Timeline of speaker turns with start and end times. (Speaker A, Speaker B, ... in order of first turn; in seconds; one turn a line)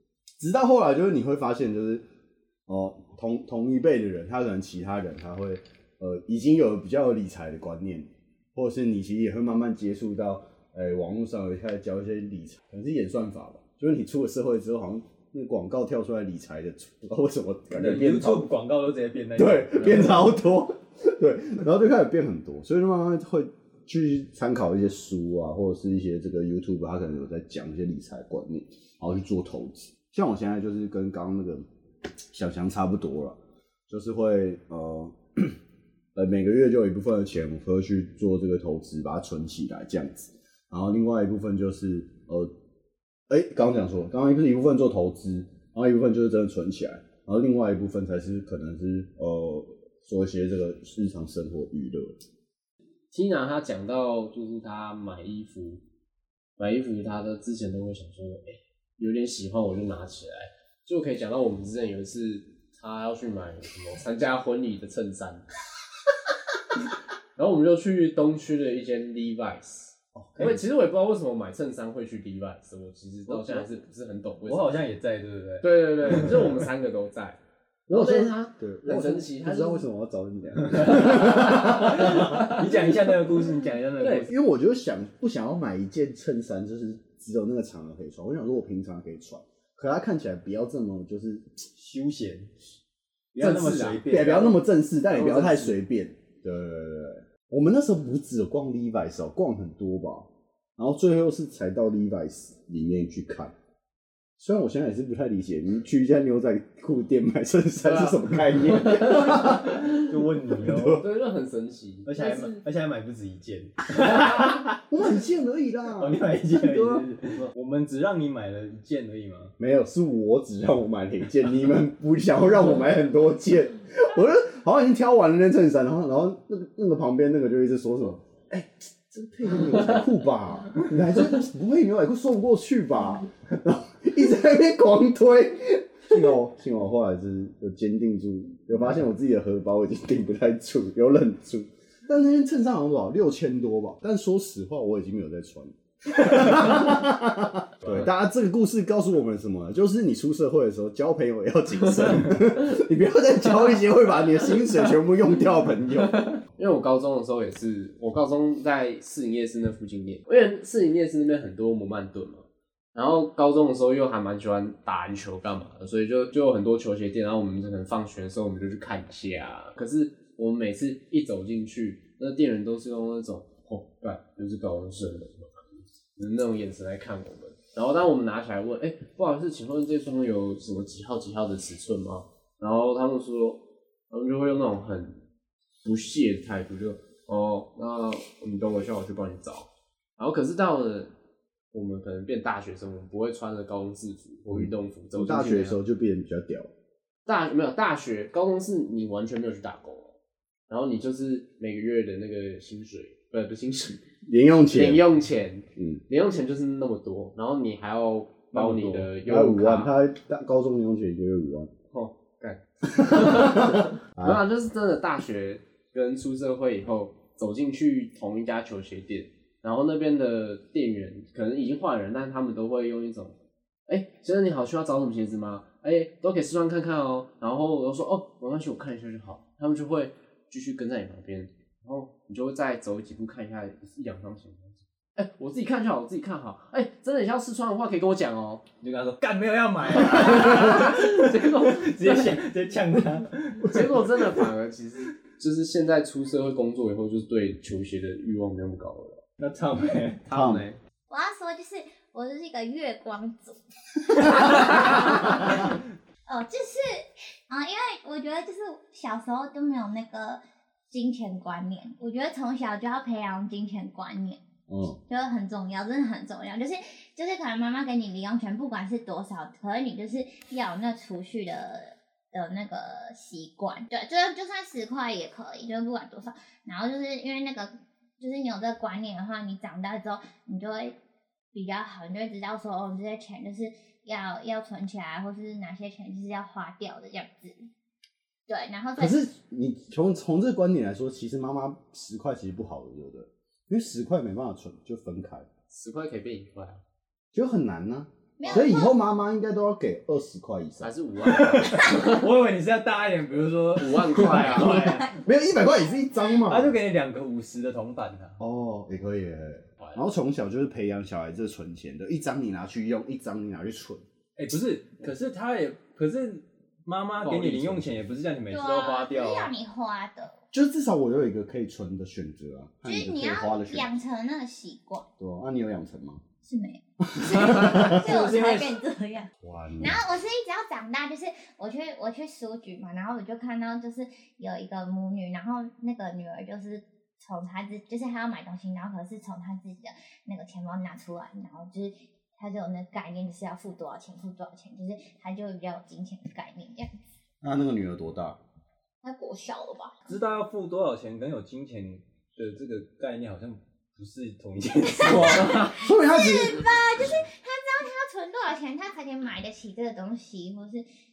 Speaker A: 0.4-2.0
Speaker A: 2.7-18.5
Speaker B: 17.7-20.3
Speaker A: 19.4-31.7
Speaker A: 32.3-35.6
Speaker A: 36.1-42.5
Speaker A: 43.3-52.2
Speaker C: 53.1-55.8
Speaker C: 56.6-65.5
Speaker C: 67.4-74.8
Speaker A: 70.2-70.6
Speaker B: 70.4-70.6
Speaker B: 74.5-76.6
Speaker C: 75.6-79.9
Speaker A: 77.9-82.6
Speaker B: 80.7-84.3
Speaker C: 82.3-82.7
Speaker C: 84.0-84.3
Speaker A: 84.3-91.6
Speaker B: 91.8-92.5
Speaker B: 93.4-94.6
Speaker C: 93.4-94.1
Speaker A: 94.0-103.5
Speaker C: 95.1-95.8
Speaker A: 104.4-111.0
Speaker C: 107.8-109.5
Speaker B: 109.1-111.1
Speaker C: 111.0-112.5
Speaker B: 112.1-114.8
Speaker A: 114.9-117.5
Speaker B: 116.0-119.5
Speaker A: 119.6-156.2
Speaker C: 156.0-185.2
Speaker C: 185.8-191.1
Speaker C: 191.7-195.8
Speaker A: 194.5-196.7
Speaker C: 197.3-200.2
Speaker C: 200.7-204.0
Speaker A: 204.2-205.1
Speaker C: 204.7-209.9
Speaker A: 205.8-206.0
Speaker A: 208.5-211.7
Speaker C: 211.9-223.4
Speaker A: 213.1-214.4
Speaker C: 223.9-238.7
Speaker B: 238.8-244.2
Speaker C: 240.1-242.4
Speaker C: 243.6-249.2
Speaker B: 249.4-250.8
Speaker A: 250.3-250.7
Speaker D: 251.1-264.4
Speaker A: 264.7-265.0
Speaker D: 265.1-281.0
Speaker D: 281.5-287.7
Speaker D: 288.5-289.2
Speaker A: 289.0-295.5
Speaker C: 295.7-296.8
Speaker A: 297.3-300.9
Speaker D: 298.4-298.9
Speaker C: 300.8-302.2
Speaker B: 301.3-305.2
Speaker C: 303.8-305.0
Speaker A: 304.4-306.8
Speaker B: 306.4-308.4
Speaker A: 308.4-314.1
Speaker B: 314.4-319.5
Speaker C: 317.2-318.0
Speaker D: 318.5-320.4
Speaker A: 320.5-324.0
Speaker D: 322.9-325.1
Speaker A: 325.2-326.2
Speaker D: 326.4-346.9
Speaker A: 327.0-328.1
Speaker B: 327.3-328.8
Speaker A: 329.4-330.0
Speaker A: 347.4-348.4
Speaker D: 349.0-350.0
Speaker B: 350.1-355.6
Speaker D: 354.8-360.9
Speaker A: 355.0-356.8
Speaker C: 355.3-355.8